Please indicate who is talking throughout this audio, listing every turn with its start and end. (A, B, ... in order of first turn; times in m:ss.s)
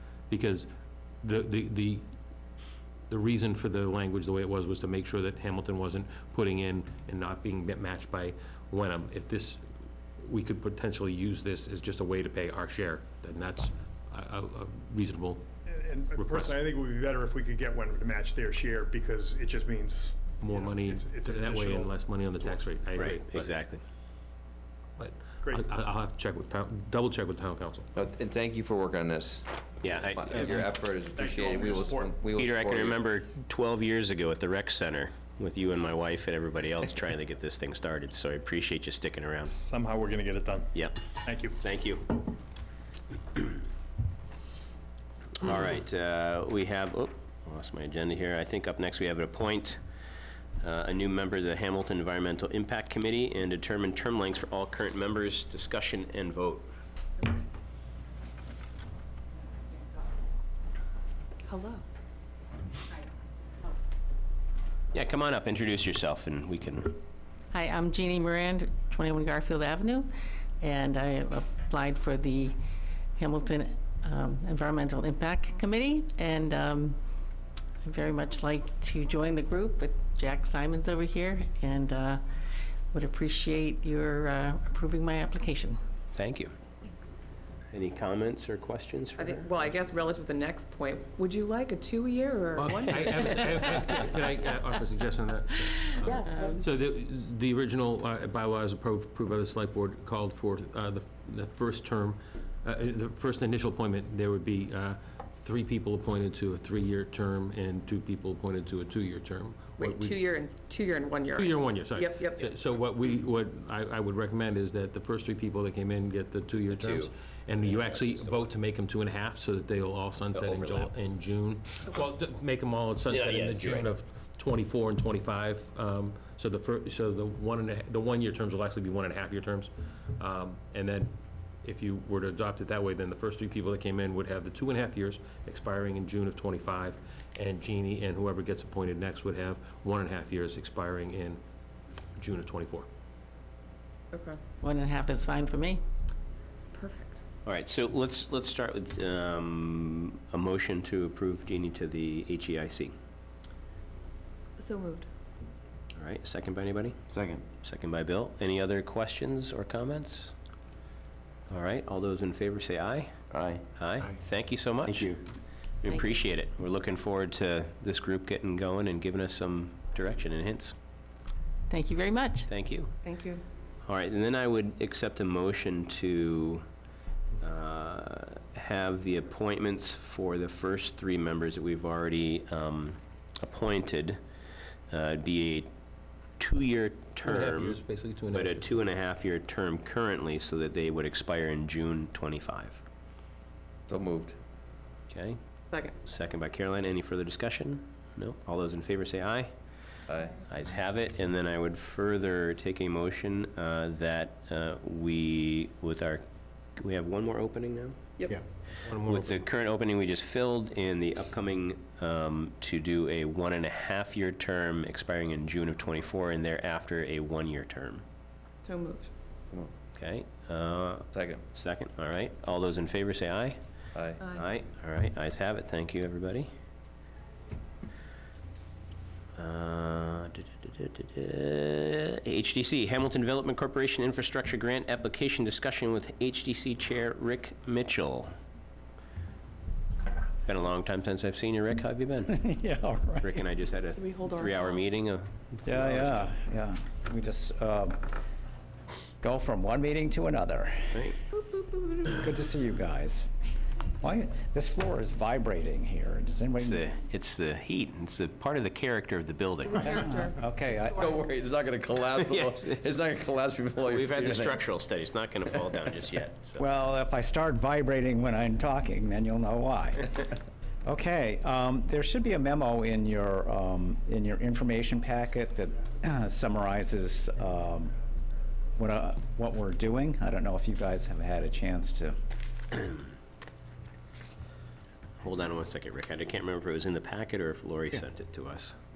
0:00.3-0:00.7 A
0:01.2-0:02.0 A
0:03.1-0:09.6 A
0:10.2-0:15.5 A
0:15.6-0:22.7 B
0:16.1-0:16.6 A
0:20.4-0:23.6 A
0:22.9-0:23.8 C
0:25.0-0:27.9 A
0:27.9-0:33.0 D
0:29.8-0:30.5 C
0:31.1-0:32.2 B
0:32.3-0:39.5 C
0:39.5-0:41.6 B
0:40.7-0:41.0 C
0:41.6-0:42.2 C
0:45.4-0:49.8 C
0:50.6-0:56.7 C
1:01.4-1:01.8 E
1:04.9-1:07.0 C
1:07.5-1:12.6 F
1:13.2-1:17.0 F
1:17.8-1:22.2 F
1:22.9-1:25.8 F
1:26.1-1:26.5 C
1:27.7-1:29.8 C
1:29.2-1:33.8 E
1:32.6-1:50.2 A
1:36.0-1:36.5 F
1:36.0-1:36.7 E
1:49.8-1:52.5 E
1:51.3-2:11.1 A
1:56.7-1:57.1 C
1:57.6-1:58.4 C
2:00.3-2:00.8 C
2:03.1-2:03.9 C
2:11.6-2:21.4 A
2:22.2-2:22.9 A
2:24.1-2:24.4 E
2:24.6-2:25.8 F
2:26.7-2:27.2 E
2:27.4-2:32.9 C
2:34.6-2:35.1 E
2:36.0-2:37.0 C
2:37.1-2:37.4 D
2:37.6-2:40.3 C
2:41.5-2:43.1 C
2:43.3-2:44.2 D
2:43.8-2:45.2 C
2:44.8-2:45.2 D
2:45.8-2:50.7 C
2:45.9-2:46.2 F
2:51.7-2:52.5 F
2:52.4-2:53.0 C
2:53.0-2:53.4 E
2:53.8-2:56.6 C
2:57.4-3:04.2 C
3:04.9-3:05.7 C
3:06.4-3:07.8 C
3:07.2-3:08.7 A
3:08.3-3:12.8 C
3:13.9-3:14.4 D
3:15.1-3:15.4 C
3:16.0-3:19.5 C
3:20.1-3:20.4 D
3:20.5-3:26.2 C
3:26.8-3:28.0 C
3:28.8-3:29.5 A
3:29.0-3:38.0 C
3:38.6-3:39.1 E
3:39.9-3:43.6 C
3:41.1-3:41.4 D
3:43.9-3:44.2 D
3:44.2-3:44.4 E
3:44.3-3:46.5 C
3:49.4-3:58.3 C
4:00.4-4:02.4 C
4:02.3-4:03.4 G
4:03.2-4:06.3 C
4:03.9-4:04.9 E
4:05.6-4:08.1 G
4:09.2-4:11.1 G
4:11.5-4:12.0 E
4:12.0-4:13.3 G
4:14.0-4:16.9 G
4:16.6-4:19.9 C
4:19.6-4:20.9 E
4:19.8-4:21.1 G
4:20.9-4:24.7 D
4:22.2-4:23.0 C
4:23.8-4:26.6 C
4:26.6-4:30.3 G
4:30.8-4:37.9 G
4:38.8-4:42.2 G
4:45.2-4:48.8 C